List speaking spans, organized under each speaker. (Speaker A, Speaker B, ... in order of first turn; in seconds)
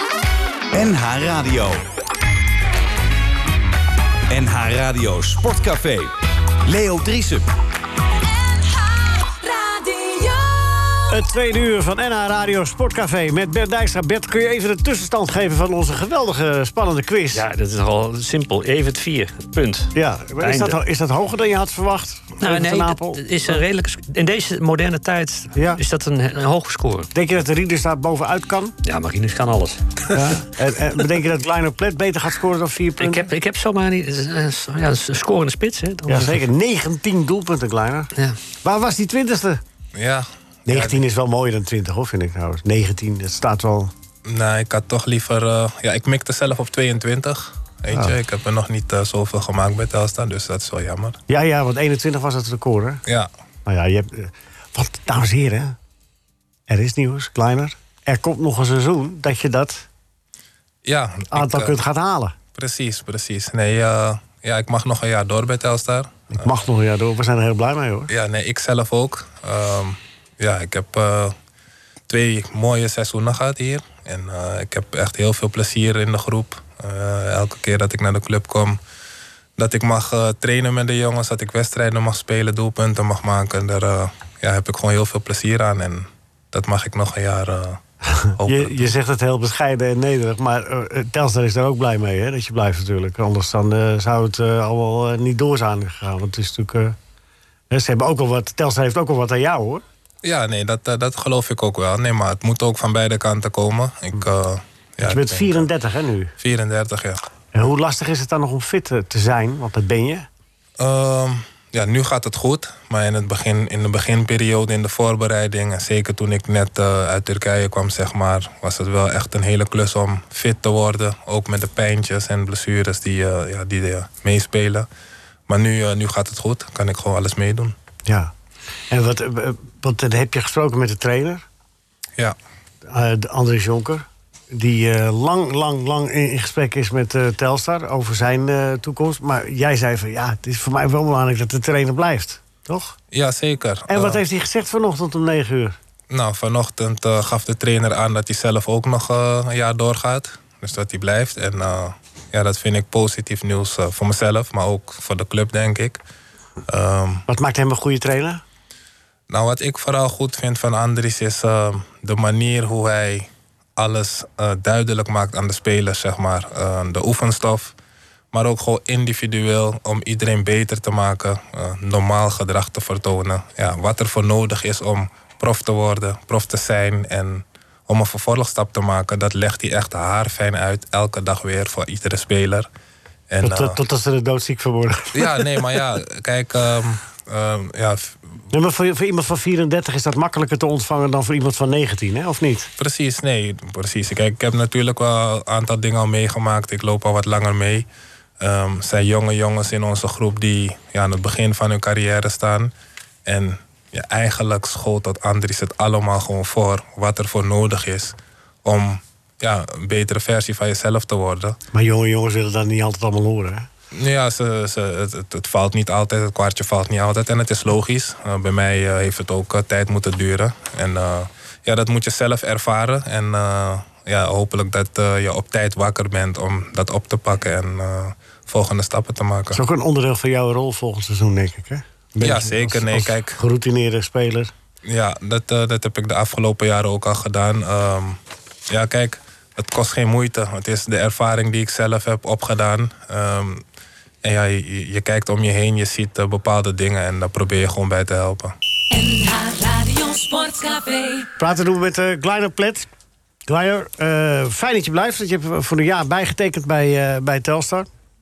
Speaker A: 0.7-1.8, 4.3-6.1, 6.7-7.5
Speaker B: 8.2-11.2, 248.9-251.3
Speaker C: 11.1-17.4, 19.9-23.6, 25.5-25.8, 27.1-28.7, 30.1-33.2, 36.1-38.1, 38.6-39.6, 40.6-43.9, 51.3-53.0, 53.6-55.8, 56.7-59.9, 61.3-62.3, 66.3-68.1, 88.2-97.0, 97.7-99.8, 105.0-106.3, 107.5-110.3, 128.1-128.3, 128.9-131.4, 132.8-143.0, 143.9-145.8, 157.3-158.4, 183.4-185.5, 188.5-192.7, 211.7-213.7, 229.5-234.5, 251.4-252.9, 253.5-257.9
Speaker D: 17.3-20.8, 22.4-27.1, 28.8-30.2, 33.0-36.4
Speaker E: 40.0-41.0, 44.3-51.2, 60.9-61.8, 62.5-66.5, 68.1-71.3, 72.1-78.8, 79.6-87.8, 88.3-88.9, 100.2-105.7, 106.4-107.2, 110.8-124.9, 125.5-127.7, 143.1-144.2, 146.1-156.0, 156.7-157.2, 159.3-167.7, 168.3-182.7, 183.3-183.8, 185.1-188.2, 192.8-197.8, 198.4-202.7, 203.2-211.6, 213.9-229.6, 232.2-233.4, 234.8-243.6, 244.2-248.5